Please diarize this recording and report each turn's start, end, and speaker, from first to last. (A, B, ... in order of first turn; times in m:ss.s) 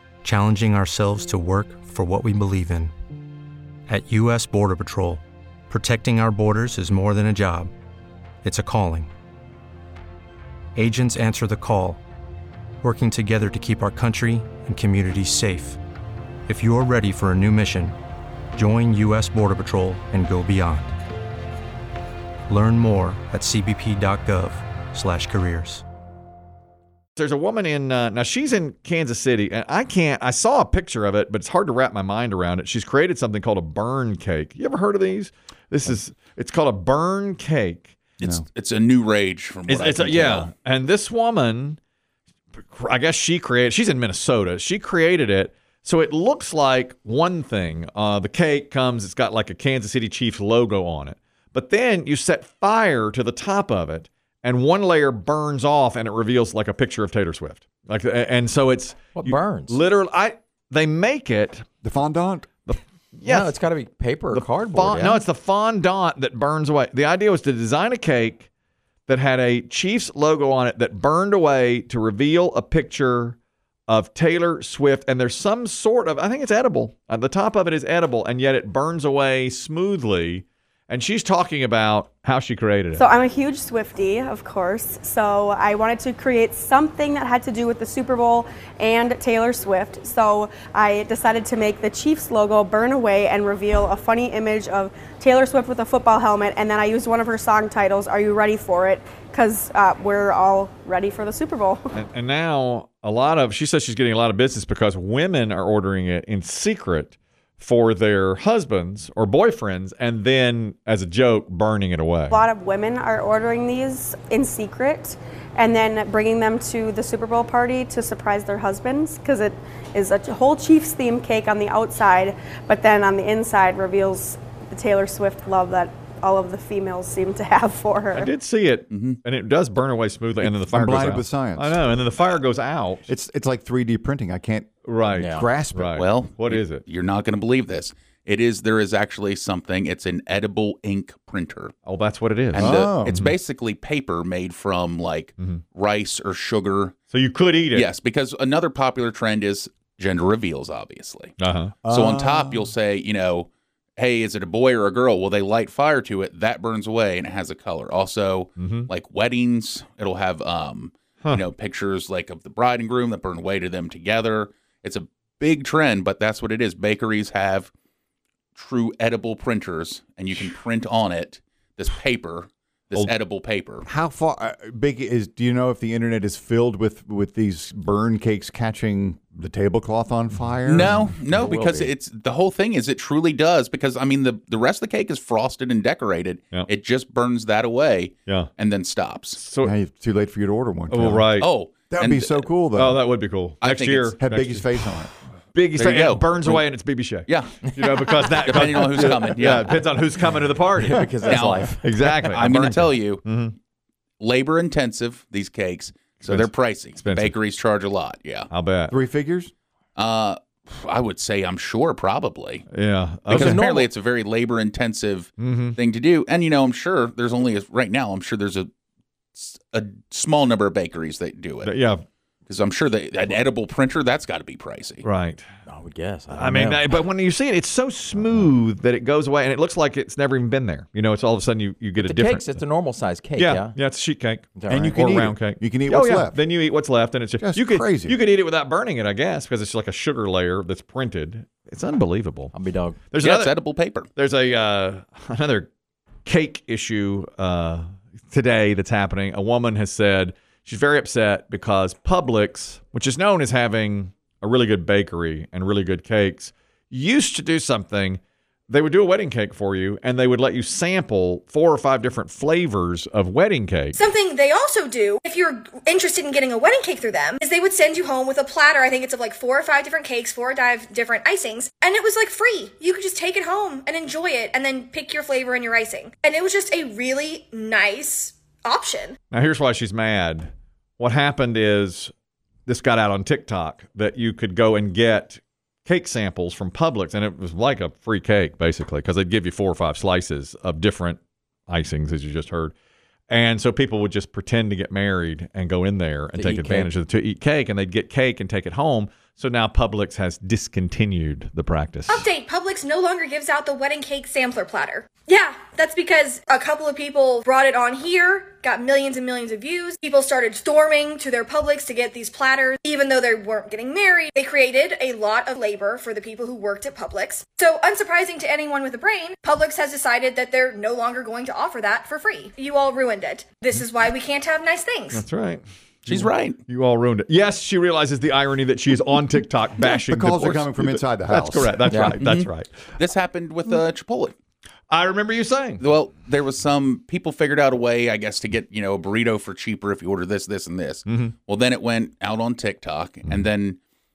0:00.2-0:03.0 A
0:03.9-0:07.7 A
0:08.4-0:09.1 A
0:10.8-0:12.0 A
0:12.8-0:15.8 A
0:16.5-0:18.0 A
0:18.6-0:21.0 A
0:22.5-0:25.8 A
0:27.2-0:38.0 B
0:38.2-0:40.5 C
0:39.7-0:41.8 B
0:42.7-1:01.7 B
0:59.1-0:59.8 D
1:01.8-1:02.5 E
1:02.6-1:03.6 B
1:03.2-1:05.2 D
1:04.3-1:08.5 B
1:09.1-1:13.4 B
1:13.9-1:23.1 B
1:23.0-1:41.8 F
1:41.9-1:52.4 B
1:52.3-2:08.3 F
2:08.1-2:13.1 B
2:08.9-2:09.2 C
2:10.4-2:11.8 E
2:13.1-2:14.7 E
2:14.9-2:16.8 B
2:15.1-2:15.5 D
2:15.2-2:15.9 E
2:16.0-2:21.8 C
2:21.9-2:23.3 B
2:22.5-2:23.3 E
2:22.6-2:27.0 C
2:27.1-2:27.9 B
2:27.7-2:47.7 C
2:31.4-2:31.8 B
2:31.8-2:32.7 E
2:38.6-2:38.9 B
2:48.6-2:53.9 C
2:53.9-3:01.5 E
3:00.7-3:09.4 C
3:01.5-3:01.8 D
3:09.4-3:09.7 B
3:09.6-3:11.3 E
3:10.9-3:11.5 B
3:11.4-3:12.5 C
3:11.9-3:13.0 E
3:12.7-3:14.9 B
3:13.6-3:14.2 C
3:14.2-3:15.1 E
3:15.5-3:21.2 B
3:15.8-3:16.6 C
3:17.3-3:19.8 C
3:20.8-3:22.3 D
3:21.2-3:21.7 C
3:21.8-3:23.6 B
3:22.3-3:23.2 C
3:24.2-3:28.5 C
3:26.3-3:27.4 B
3:28.5-3:29.0 B
3:28.9-3:29.5 E
3:30.0-3:32.6 C
3:32.7-3:33.6 B
3:33.3-3:38.7 C
3:33.4-3:33.9 D
3:35.4-3:35.8 B
3:39.3-3:41.7 C
3:41.6-3:42.0 B
3:42.5-3:45.0 C
3:45.0-3:45.4 B
3:45.7-3:46.9 D
3:46.3-3:52.6 B
3:52.0-3:53.8 D
3:53.4-4:02.6 B
3:54.6-3:54.9 D
3:54.7-3:56.4 E
3:57.4-3:58.2 E
4:02.5-4:03.1 D
4:03.1-4:03.6 B
4:03.2-4:04.1 C
4:04.2-4:05.7 B
4:06.2-4:24.0 B
4:24.0-4:39.2 G
4:39.3-4:42.1 B
4:42.7-4:52.8 B
4:53.3-5:02.3 B
4:56.4-4:56.9 D
5:02.1-5:25.2 G
5:25.1-5:32.8 B
5:26.1-5:26.6 C
5:30.1-5:31.7 E
5:31.9-5:32.2 D
5:32.2-5:34.4 C
5:34.9-5:35.8 B
5:35.8-5:43.8 C
5:41.1-5:41.4 B